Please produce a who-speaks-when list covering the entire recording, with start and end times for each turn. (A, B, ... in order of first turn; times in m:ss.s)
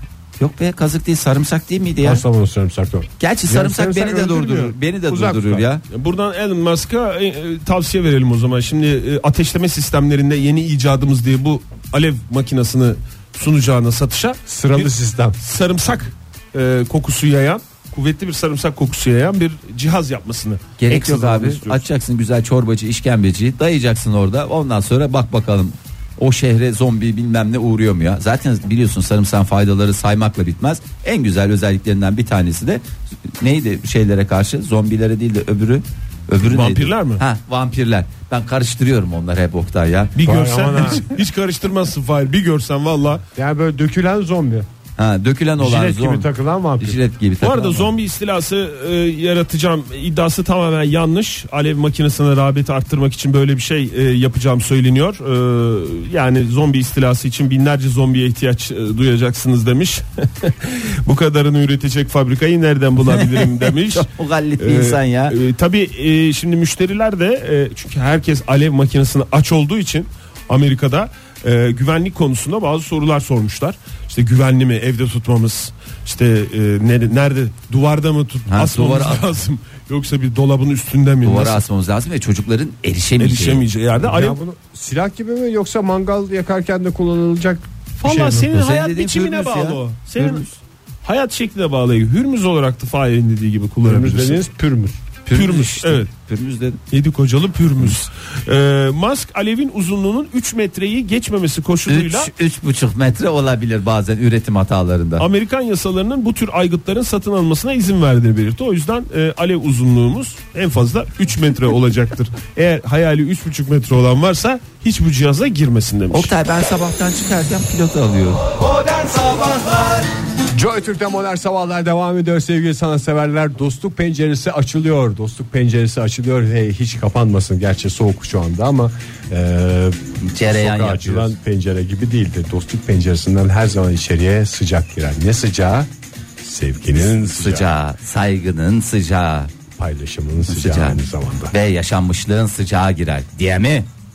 0:00.4-0:02.2 A
0:02.0-0:05.6 B
0:03.2-0:05.8 A
0:05.9-0:21.8 C
0:14.5-0:15.4 B
0:20.8-0:32.9 A
0:33.4-0:40.2 A
0:36.4-0:37.2 C
0:40.2-0:43.2 C
0:40.2-0:41.0 B
0:43.4-0:44.7 B
0:45.0-0:46.3 A
0:45.6-0:47.0 B
0:46.8-0:47.9 A
0:47.4-1:04.1 C
1:03.1-1:05.4 A
1:04.6-1:21.6 C
1:18.5-1:19.3 A
1:21.2-1:23.6 A
1:23.2-1:24.4 C
1:24.0-1:28.5 B
1:28.0-1:30.4 C
1:28.5-1:30.6 A
1:31.0-1:34.4 C
1:33.8-1:35.0 B
1:35.3-1:36.8 A
1:35.3-1:36.1 C
1:36.9-1:42.3 C
1:41.9-1:45.3 A
1:45.2-1:56.3 C
1:56.1-2:00.1 A
2:00.5-2:17.7 B
2:10.2-2:11.3 A
2:17.0-2:19.5 A
2:19.8-2:21.5 B
2:20.5-2:21.0 A
2:21.5-2:23.9 A